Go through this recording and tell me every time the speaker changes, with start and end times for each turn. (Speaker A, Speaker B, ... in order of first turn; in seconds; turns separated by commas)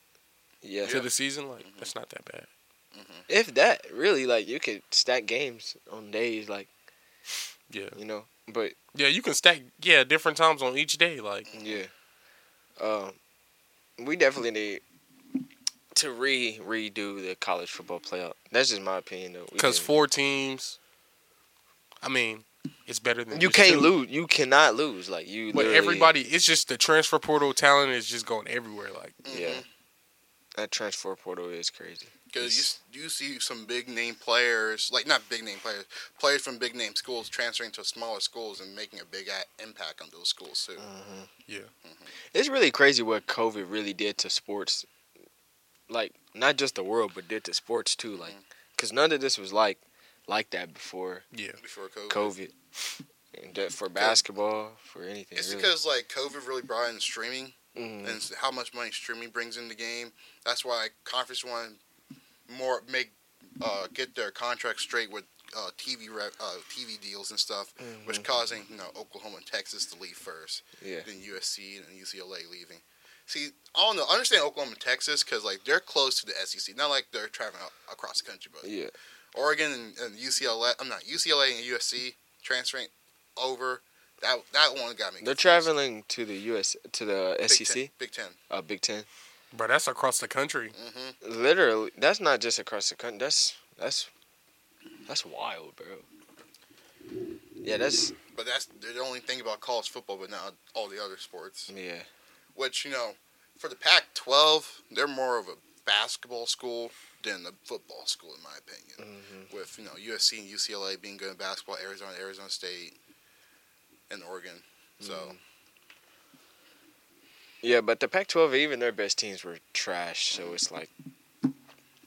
Speaker A: 0.6-1.0, Speaker B: 0.9-2.5, Speaker C: 1.6-1.9, Speaker C: 2.9-3.3, Speaker A: 3.3-6.7, Speaker B: 7.7-8.0, Speaker A: 8.0-8.8, Speaker B: 8.9-11.5, Speaker C: 11.5-11.8, Speaker A: 11.5-11.9, Speaker A: 12.8-13.2, Speaker A: 14.0-14.8, Speaker A: 15.9-19.9, Speaker B: 19.6-20.8, Speaker B: 22.0-23.9, Speaker A: 23.3-26.1, Speaker B: 25.5-29.2, Speaker C: 29.2-29.6, Speaker A: 29.3-29.6, Speaker A: 30.6-32.7, Speaker C: 32.3-40.8, Speaker A: 40.8-41.3, Speaker A: 42.3-44.9, Speaker A: 45.9-51.2, Speaker B: 51.3-51.6, Speaker C: 51.6-52.4, Speaker A: 52.1-52.5, Speaker A: 53.3-55.7, Speaker C: 54.0-54.2, Speaker C: 55.4-61.8, Speaker A: 57.8-58.2, Speaker C: 62.5-78.7, Speaker A: 67.8-68.3, Speaker A: 70.8-71.1, Speaker A: 78.6-78.9, Speaker C: 79.3-85.7, Speaker A: 85.2-87.9, Speaker C: 87.5-88.4, Speaker A: 88.5-89.1, Speaker B: 89.5-90.8, Speaker C: 90.8-91.2, Speaker A: 91.2-94.1, Speaker A: 95.1-96.0, Speaker A: 97.6-98.1, Speaker C: 98.3-101.7, Speaker A: 101.7-102.1, Speaker C: 102.5-113.0, Speaker A: 109.0-109.5, Speaker C: 114.1-115.3, Speaker A: 115.0-115.4, Speaker A: 117.6-120.9